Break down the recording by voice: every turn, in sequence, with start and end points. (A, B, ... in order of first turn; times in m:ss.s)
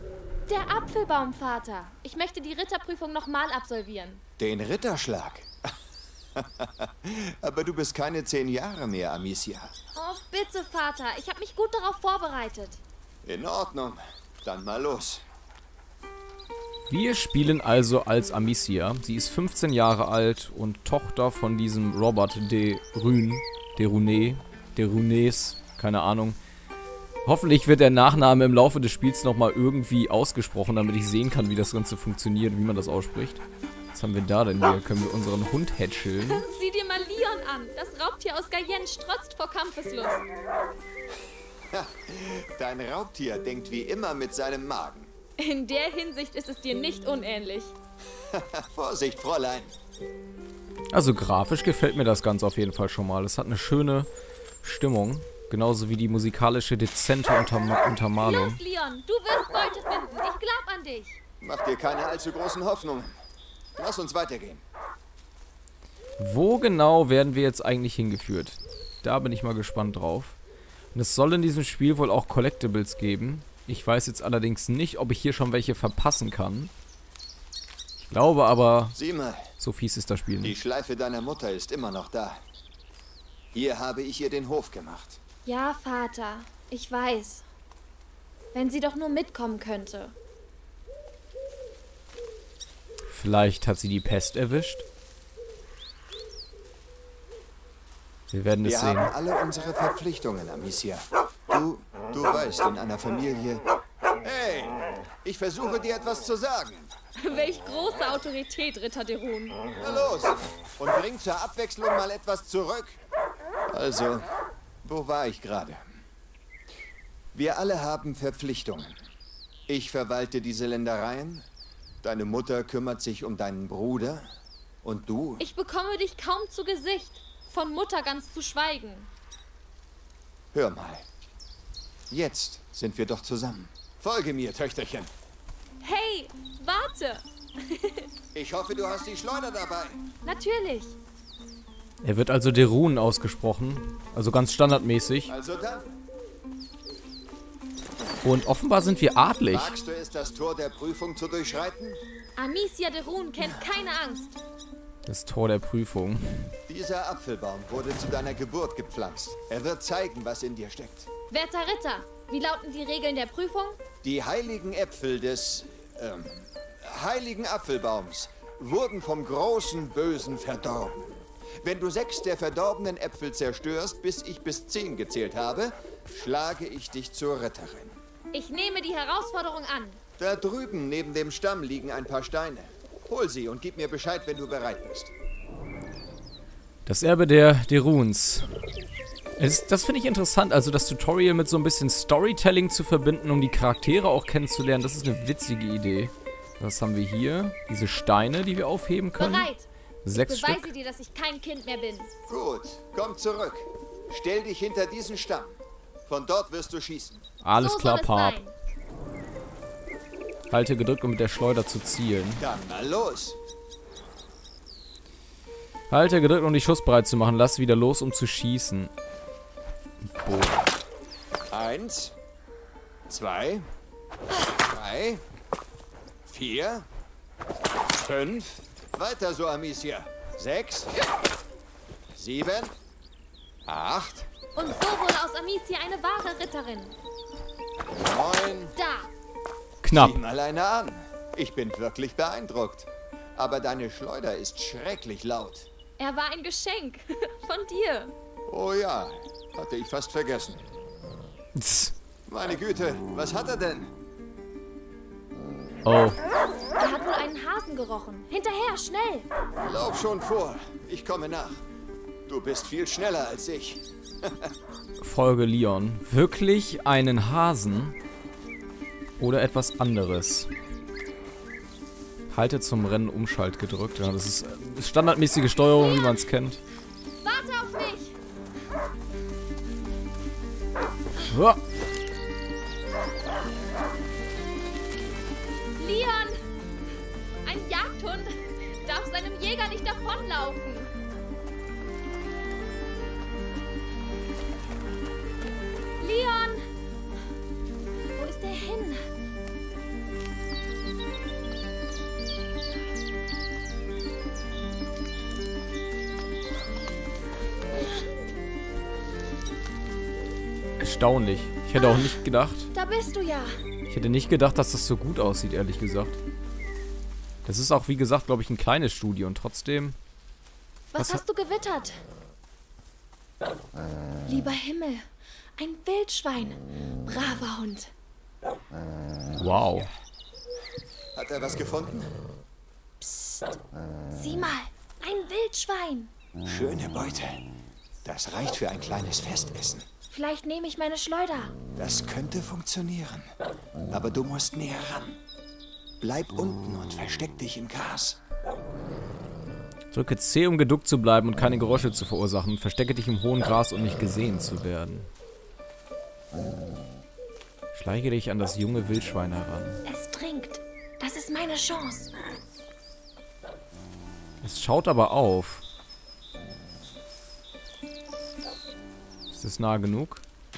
0:00.5-0:04.2 A
0:04.4-0:05.5 B
0:06.4-0:09.7 B
0:10.0-0:12.8 A
0:13.2-0:15.2 B
0:16.9-0:26.4 C
0:27.2-0:36.4 C
0:36.3-0:40.2 A
0:41.7-0:45.1 B
0:45.4-0:47.7 A
0:48.3-0:49.7 B
0:50.9-0:54.1 C
0:54.6-0:58.6 C
0:58.2-1:01.2 A
1:01.4-1:03.2 B
1:03.8-1:04.6 B
1:06.2-1:10.4 C
1:10.9-1:16.7 C
1:18.0-1:19.0 C
1:19.0-1:19.5 B
1:19.6-1:20.6 C
1:20.4-1:22.4 B
1:23.5-1:25.2 B
1:25.4-1:27.4 A
1:28.5-1:30.1 A
1:33.1-1:34.8 C
1:38.3-1:39.1 C
1:38.6-1:43.6 B
1:44.2-1:46.9 B
1:47.2-1:49.6 A
1:49.8-1:53.0 B
1:53.7-1:54.3 B
1:54.8-1:55.8 B
1:57.3-1:59.0 B
1:59.7-2:01.5 B
2:02.0-2:04.3 B
2:04.8-2:05.4 B
2:05.4-2:09.1 A
2:10.5-2:11.1 B
2:12.1-2:15.1 B
2:15.8-2:18.1 A
2:18.3-2:20.0 B
2:20.2-2:21.0 A
2:22.0-2:25.3 C
2:25.3-2:25.9 B
2:28.2-2:29.8 C
2:29.5-2:32.0 B
2:32.4-2:34.4 A
2:35.1-2:36.5 C
2:36.7-2:41.1 B
2:41.3-2:43.8 A
2:44.0-2:58.0 B
2:58.3-3:00.0 A
3:00.2-3:05.1 B
3:06.9-3:08.5 C
3:09.4-3:19.5 C
3:19.2-3:22.1 A
3:20.0-3:20.6 C
3:22.3-3:27.2 B
3:27.4-3:28.4 C
3:27.5-3:28.5 A
3:30.5-3:32.4 C
3:32.4-3:33.4 B
3:35.9-3:38.9 C
3:40.0-3:40.7 C
3:41.5-3:42.2 B
3:43.1-3:43.7 B
3:44.6-3:45.2 B
3:46.2-3:46.9 B
3:48.0-3:50.9 B
3:52.1-3:52.8 B
3:53.7-3:54.3 B
3:54.6-3:56.9 A
3:57.9-3:58.8 B
3:58.8-3:59.1 A
3:59.8-4:00.2 C
3:59.9-4:05.7 B
4:06.0-4:08.1 A
4:08.5-4:10.6 B
4:11.6-4:11.9 C
4:12.3-4:13.9 B
4:15.8-4:16.2 C
4:16.8-4:19.3 A
4:19.6-4:21.6 B
4:22.3-4:24.5 B
4:25.0-4:28.0 C
4:29.2-4:30.5 C
4:32.3-4:36.6 C
4:35.8-4:36.2 A
4:37.2-4:38.2 A
4:41.3-4:41.6 C
4:45.8-4:46.4 A
4:47.4-4:50.9 A
4:56.0-4:56.7 A
4:58.1-4:59.0 A
5:10.8-5:12.7 C
5:11.8-5:12.2 A
5:12.7-5:13.6 A
5:13.9-5:16.2 C
5:17.4-5:20.0 C
5:20.9-5:22.0 A
5:21.0-5:21.2 C
5:24.3-5:27.9 A
5:29.4-5:29.9 C
5:31.1-5:32.1 B
5:33.0-5:33.5 A
5:34.1-5:36.1 A
5:36.4-5:37.4 B
5:38.0-5:39.9 B
5:40.1-5:41.6 A
5:41.8-5:43.3 B
5:43.9-5:45.2 B
5:46.0-5:48.2 B
5:49.9-5:55.1 C
5:57.7-5:59.8 C
5:59.9-6:02.1 A
6:04.4-6:05.6 C
6:09.3-6:10.2 C